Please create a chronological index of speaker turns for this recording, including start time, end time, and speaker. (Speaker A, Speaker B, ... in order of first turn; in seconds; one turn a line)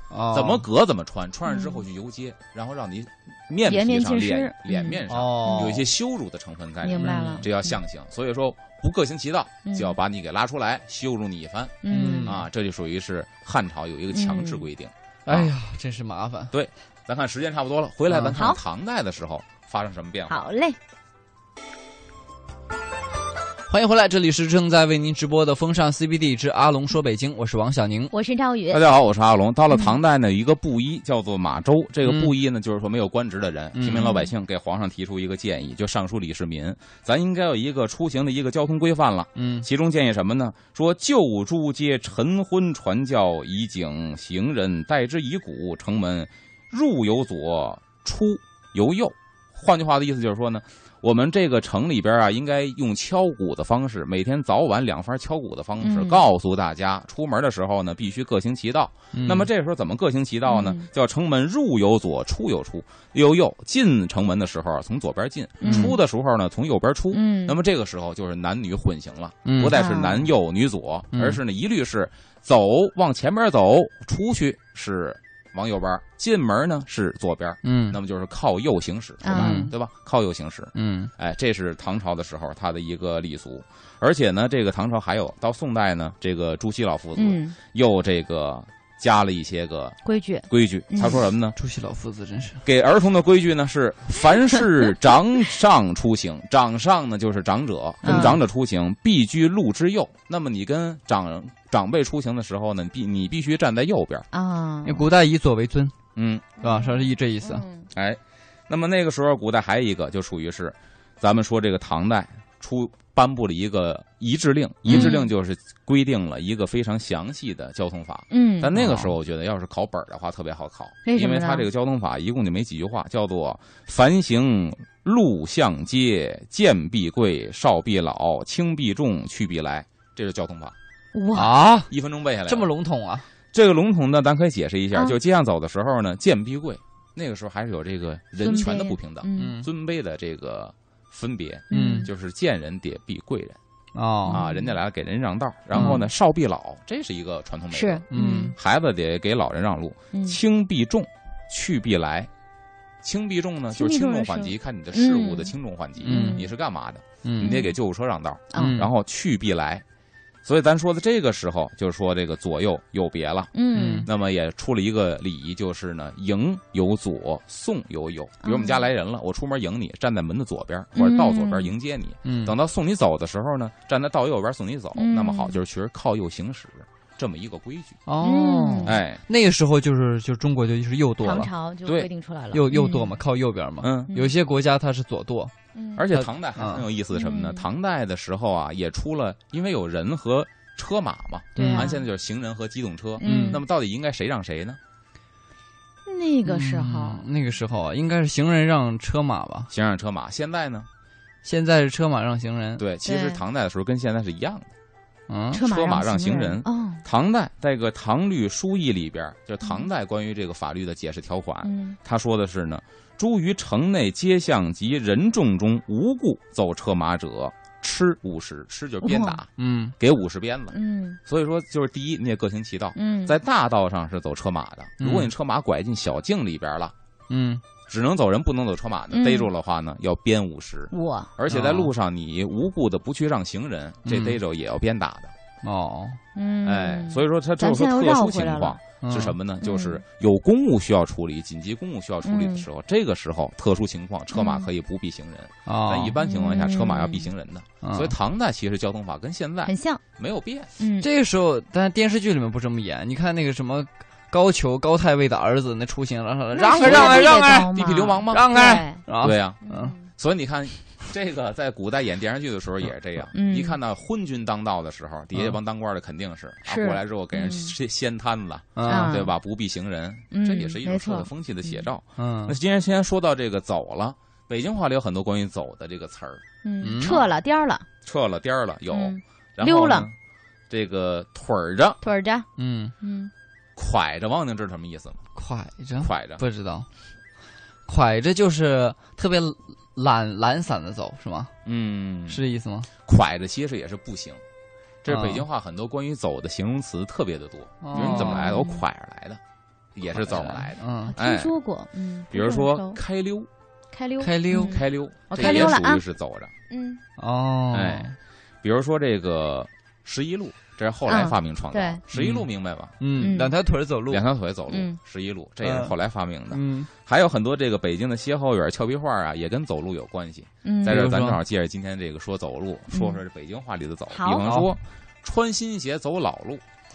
Speaker A: 0.1-0.6
Speaker B: 0.3-15.5
Speaker C: 1.5-1.8
Speaker C: 3.7-5.8
Speaker A: 5.1-5.8
Speaker C: 6.8-7.7
Speaker A: 7.0-7.5
Speaker C: 9.6-10.0
Speaker C: 11.8-12.4
Speaker A: 11.9-12.4
Speaker C: 14.1-14.6
Speaker A: 15.2-16.5
Speaker B: 16.5-20.5
Speaker C: 18.3-18.6
Speaker C: 20.3-20.8
Speaker A: 23.7-28.1
Speaker C: 28.1-28.8
Speaker B: 28.7-90.0
Speaker C: 29.7-30.0
Speaker A: 32.0-32.3
Speaker A: 33.7-34.1
Speaker C: 33.9-34.3
Speaker A: 39.4-39.7
Speaker C: 55.8-56.2
Speaker A: 59.1-59.5
Speaker C: 60.5-60.9
Speaker C: 65.6-66.0
Speaker A: 65.6-65.9
Speaker C: 67.1-67.5
Speaker A: 69.4-69.7
Speaker C: 69.7-70.3
Speaker A: 71.1-71.4
Speaker A: 77.6-78.0
Speaker C: 79.2-79.7
Speaker A: 79.3-79.7
Speaker A: 80.7-81.1
Speaker C: 87.1-87.5
Speaker C: 90.0-91.2
Speaker B: 90.5-91.5
Speaker A: 91.5-92.6
Speaker B: 92.6-104.3
Speaker A: 98.0-98.4
Speaker C: 98.0-98.4
Speaker C: 104.3-105.0
Speaker A: 104.8-105.9
Speaker B: 106.2-106.5
Speaker C: 106.6-107.9
Speaker A: 106.6-107.6
Speaker B: 107.9-130.8
Speaker C: 114.8-115.3
Speaker A: 114.9-115.1
Speaker C: 118.3-118.8
Speaker A: 118.7-119.1
Speaker C: 121.0-121.7
Speaker C: 131.1-131.6
Speaker A: 131.3-131.9
Speaker B: 131.9-132.7
Speaker A: 132.5-133.2
Speaker B: 133.5-143.6
Speaker C: 138.4-139.6
Speaker A: 139.4-139.7
Speaker A: 141.7-142.1
Speaker C: 141.7-142.1
Speaker A: 143.9-144.4
Speaker C: 144.3-144.8
Speaker B: 144.3-152.3
Speaker A: 145.7-146.0
Speaker C: 147.7-148.5
Speaker A: 148.1-148.5
Speaker C: 150.1-150.4
Speaker B: 153.0-159.8
Speaker C: 153.7-155.5
Speaker A: 156.0-156.4
Speaker C: 156.0-156.5
Speaker A: 157.2-157.6
Speaker C: 157.4-157.7
Speaker C: 158.5-158.8
Speaker A: 158.6-158.9
Speaker B: 160.4-163.5
Speaker C: 163.5-164.1
Speaker A: 163.7-164.1
Speaker B: 164.0-178.0
Speaker C: 168.4-168.8
Speaker C: 170.9-171.7
Speaker A: 172.2-172.5
Speaker C: 175.0-175.6
Speaker A: 178.1-181.5
Speaker C: 178.2-179.0
Speaker B: 178.8-179.2
Speaker C: 181.2-183.2
Speaker B: 181.8-182.1
Speaker A: 182.5-185.5
Speaker B: 183.8-184.1
Speaker C: 185.8-186.0
Speaker B: 185.9-194.8
Speaker A: 186.1-186.8
Speaker C: 187.1-187.7
Speaker A: 191.6-191.9
Speaker C: 191.6-192.1
Speaker C: 193.2-193.6
Speaker A: 193.2-193.6
Speaker C: 196.1-197.2
Speaker A: 196.4-199.7
Speaker B: 199.7-200.9
Speaker A: 201.4-202.8
Speaker B: 202.8-204.7
Speaker C: 203.0-203.4
Speaker A: 205.3-205.6
Speaker C: 205.5-207.0
Speaker B: 205.6-226.9
Speaker C: 209.6-209.9
Speaker C: 211.6-212.0
Speaker C: 219.0-219.4
Speaker A: 219.6-219.9
Speaker C: 220.7-221.2
Speaker C: 222.9-223.3
Speaker A: 225.0-225.3
Speaker A: 227.3-227.6
Speaker B: 227.9-235.3
Speaker C: 229.1-229.5
Speaker C: 230.9-231.3
Speaker A: 231.5-231.9
Speaker A: 234.0-234.4
Speaker A: 235.6-236.2
Speaker C: 236.3-238.8
Speaker B: 236.6-250.7
Speaker A: 239.0-239.3
Speaker C: 239.6-240.0
Speaker C: 242.2-242.6
Speaker C: 244.3-244.7
Speaker A: 245.7-246.1
Speaker C: 246.2-247.3
Speaker A: 247.8-248.1
Speaker C: 249.7-250.0
Speaker C: 250.8-251.1
Speaker A: 251.0-257.8
Speaker C: 256.5-259.0
Speaker B: 256.8-276.4
Speaker A: 258.3-259.9
Speaker C: 259.6-260.1
Speaker C: 263.3-263.8
Speaker C: 266.6-267.7
Speaker A: 268.8-269.2
Speaker C: 268.8-269.3
Speaker C: 270.3-271.8
Speaker A: 272.2-272.6
Speaker C: 276.6-277.8
Speaker A: 276.8-277.2
Speaker B: 277.0-277.3
Speaker B: 278.0-280.1
Speaker C: 278.9-280.1
Speaker B: 280.7-282.0
Speaker C: 282.0-282.5
Speaker A: 282.6-282.9
Speaker C: 283.0-283.3
Speaker B: 283.8-285.2
Speaker A: 285.3-286.9
Speaker B: 286.0-286.4
Speaker A: 287.9-291.5
Speaker B: 291.6-292.4
Speaker A: 292.3-292.9
Speaker B: 293.0-294.4
Speaker B: 295.0-299.4
Speaker A: 295.1-295.4
Speaker A: 297.8-298.6
Speaker C: 297.9-298.8
Speaker B: 299.9-301.5
Speaker A: 300.1-301.1
Speaker C: 301.1-303.0
Speaker B: 302.3-303.5
Speaker C: 303.9-306.0
Speaker A: 304.2-304.8
Speaker B: 304.5-306.5
Speaker A: 305.4-305.8
Speaker C: 306.7-307.0
Speaker A: 307.2-308.1
Speaker B: 307.7-312.9
Speaker C: 311.1-312.0
Speaker A: 312.1-312.4
Speaker A: 313.0-314.2
Speaker C: 313.2-313.5
Speaker B: 314.1-326.6
Speaker C: 314.7-315.0
Speaker A: 315.6-315.9
Speaker A: 316.5-316.9
Speaker C: 320.6-321.0
Speaker A: 320.9-321.4
Speaker C: 322.9-323.2
Speaker C: 324.1-324.5
Speaker A: 324.4-324.7